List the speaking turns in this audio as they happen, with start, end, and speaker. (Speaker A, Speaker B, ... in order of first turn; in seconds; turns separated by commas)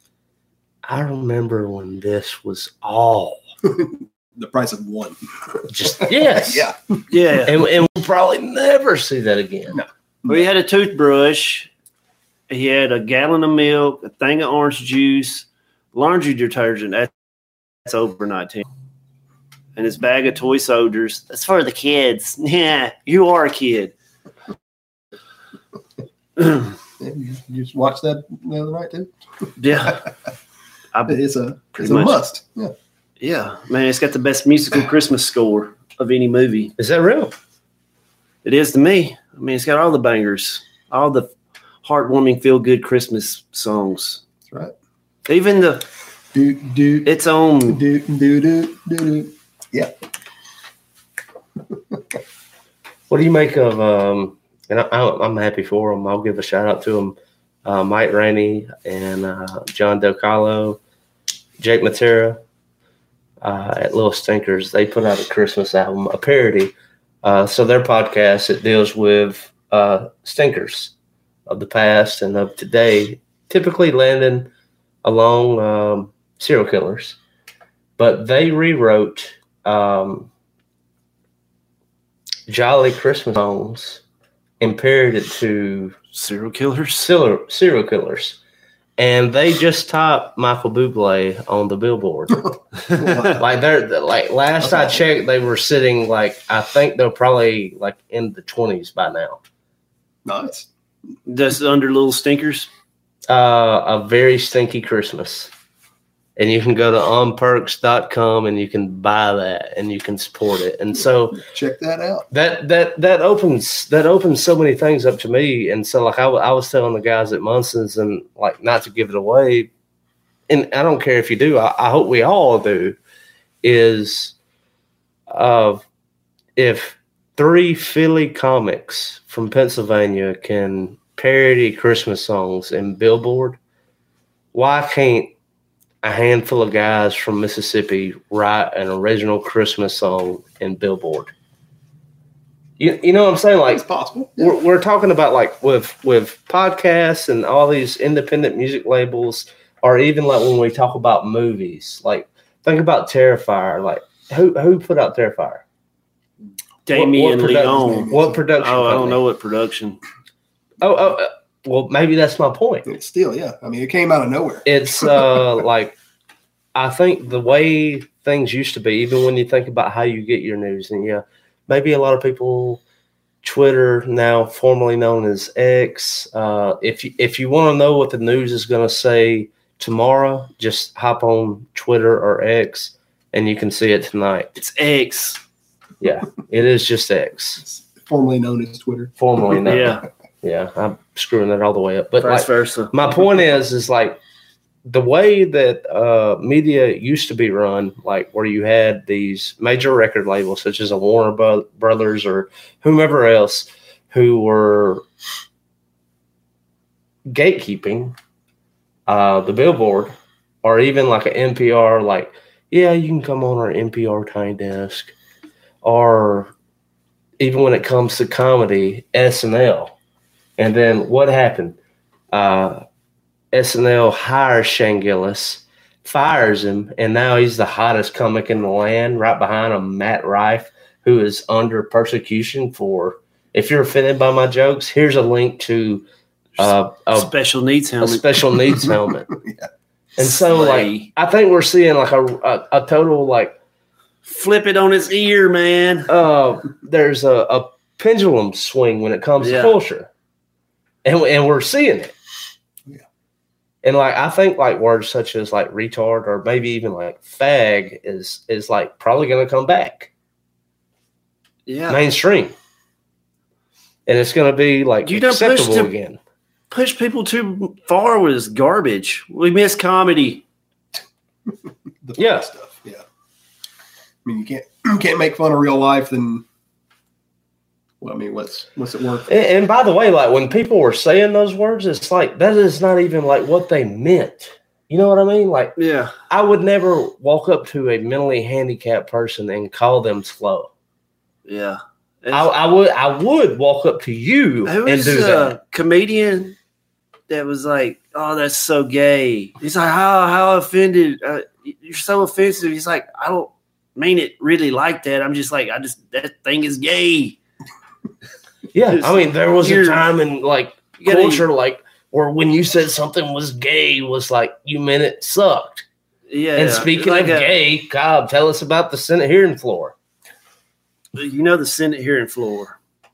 Speaker A: 0.8-3.4, Speaker B: 3.6-7.0, Speaker A: 5.7-6.7, Speaker C: 7.1-7.5, Speaker A: 7.4-9.8, Speaker B: 9.7-10.5, Speaker C: 10.3-11.7, Speaker C: 12.5-17.1, Speaker C: 17.8-18.6, Speaker C: 19.8-23.9, Speaker B: 27.0-29.1, Speaker C: 29.6-30.0, Speaker C: 30.9-31.2, Speaker B: 31.1-32.7, Speaker C: 31.7-32.2, Speaker C: 33.2-36.7, Speaker A: 36.8-37.3, Speaker C: 38.4-41.3, Speaker C: 41.8-44.2, Speaker C: 45.3-45.9, Speaker B: 46.3-47.1, Speaker C: 47.0-47.8, Speaker B: 47.7-49.9, Speaker A: 53.1-60.8, Speaker A: 61.6-62.4, Speaker A: 63.4-70.9, Speaker A: 71.5-74.5, Speaker A: 75.0-77.2, Speaker A: 78.0-80.3, Speaker A: 82.5-84.0, Speaker A: 84.6-86.0, Speaker C: 86.1-87.1, Speaker A: 87.0-88.4, Speaker A: 89.0-92.4, Speaker C: 92.8-93.3, Speaker B: 93.0-93.4, Speaker A: 93.3-99.4, Speaker B: 94.6-95.0, Speaker B: 100.2-100.7, Speaker C: 101.2-102.7, Speaker A: 103.3-105.5, Speaker A: 106.4-111.4, Speaker B: 111.4-112.3, Speaker A: 112.3-119.7, Speaker A: 120.5-123.0, Speaker A: 123.6-124.3, Speaker A: 125.3-125.8, Speaker A: 126.5-133.6, Speaker A: 134.5-135.3, Speaker A: 136.0-141.3, Speaker A: 142.8-143.8, Speaker B: 143.7-144.6, Speaker A: 144.4-155.6, Speaker C: 156.8-160.0, Speaker A: 156.9-159.2, Speaker B: 157.4-158.4, Speaker A: 160.8-162.9, Speaker B: 162.9-165.3, Speaker A: 164.7-166.0, Speaker A: 166.7-172.8, Speaker A: 173.4-184.5, Speaker C: 184.6-185.4, Speaker A: 186.0-187.6, Speaker B: 187.6-189.8, Speaker A: 189.2-194.2, Speaker C: 189.7-190.0, Speaker C: 192.2-192.9, Speaker A: 194.8-205.0, Speaker A: 207.3-208.2, Speaker A: 209.1-215.1, Speaker A: 215.8-216.5, Speaker A: 217.4-219.9, Speaker A: 220.6-221.8, Speaker A: 222.3-222.8, Speaker A: 223.5-236.1, Speaker C: 236.6-238.2, Speaker A: 236.6-237.3, Speaker A: 238.0-239.3, Speaker B: 238.8-239.7, Speaker A: 240.2-243.6, Speaker C: 240.2-241.1, Speaker C: 244.2-246.1, Speaker A: 246.1-250.1, Speaker C: 249.4-249.8, Speaker A: 251.0-252.1, Speaker A: 253.8-260.1, Speaker C: 261.7-262.0, Speaker A: 261.9-262.5, Speaker A: 264.1-266.2, Speaker C: 265.0-265.9, Speaker C: 266.7-270.4, Speaker B: 272.0-273.0, Speaker A: 272.2-272.5, Speaker B: 274.2-276.4, Speaker B: 278.0-279.3, Speaker A: 279.3-285.7, Speaker C: 285.8-286.1, Speaker A: 286.3-290.7, Speaker C: 291.4-292.5, Speaker A: 292.3-295.5, Speaker C: 294.6-296.6, Speaker C: 297.3-307.4, Speaker A: 308.7-315.9, Speaker C: 308.9-310.0, Speaker C: 311.0-311.4, Speaker C: 316.3-317.6, Speaker A: 316.6-319.9, Speaker C: 321.1-322.8